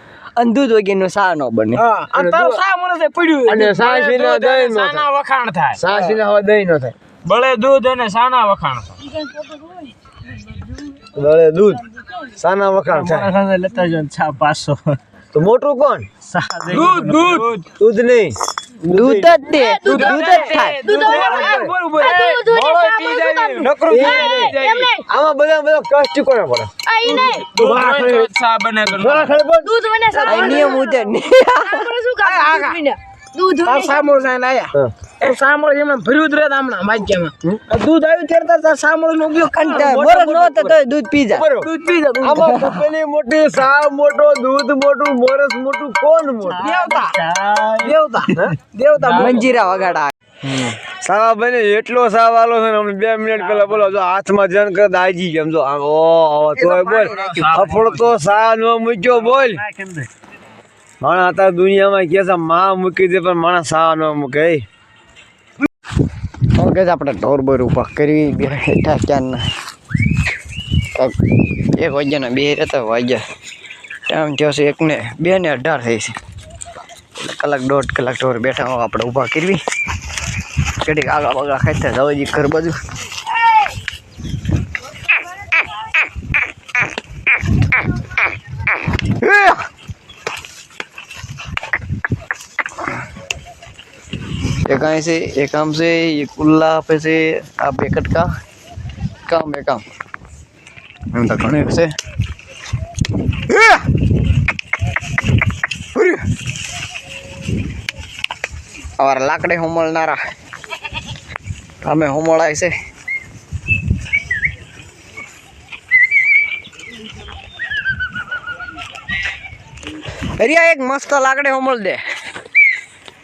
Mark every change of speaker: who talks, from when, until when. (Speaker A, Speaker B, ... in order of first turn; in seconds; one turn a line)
Speaker A: 0.4-1.8
Speaker B: 1.8-4.2
Speaker C: 2.1-2.6
Speaker C: 3.5-5.1
Speaker D: 3.8-5.9
Speaker C: 5.8-7.0
Speaker D: 7.2-9.0
Speaker C: 11.1-11.8
Speaker C: 12.4-13.3
Speaker B: 13.0-14.8
Speaker D: 13.4-14.9
Speaker C: 15.3-16.1
Speaker B: 16.3-17.5
Speaker D: 16.6-17.7
Speaker C: 17.7-19.4
Speaker A: 18.9-20.8
Speaker E: 19.5-25.0
Speaker D: 19.9-21.3
Speaker B: 20.8-22.3
Speaker C: 20.9-21.9
Speaker D: 21.9-24.9
Speaker B: 23.6-24.5
Speaker C: 23.6-26.7
Speaker E: 26.9-27.8
Speaker B: 27.1-28.3
Speaker D: 27.4-29.4
Speaker C: 28.9-29.7
Speaker E: 29.6-34.1
Speaker A: 30.2-31.9
Speaker C: 30.3-30.7
Speaker B: 32.2-32.8
Speaker B: 33.6-39.9
Speaker A: 39.5-41.5
Speaker C: 39.7-40.8
Speaker C: 41.3-41.7
Speaker B: 41.6-42.8
Speaker C: 42.2-46.7
Speaker B: 46.5-49.5
Speaker D: 46.7-47.9
Speaker D: 49.0-49.3
Speaker A: 49.1-50.1
Speaker C: 50.5-59.6
Speaker B: 56.6-57.7
Speaker D: 57.1-58.1
Speaker C: 61.0-64.7
Speaker A: 66.5-69.5
Speaker A: 70.9-73.2
Speaker A: 74.1-76.2
Speaker A: 77.2-79.6
Speaker A: 80.8-82.8
Speaker A: 89.0-89.7
Speaker A: 94.6-98.3
Speaker A: 99.3-99.8
Speaker A: 101.1-101.9
Speaker A: 103.5-103.8
Speaker A: 105.9-106.2
Speaker A: 109.0-110.2
Speaker A: 111.8-112.7
Speaker A: 120.4-122.0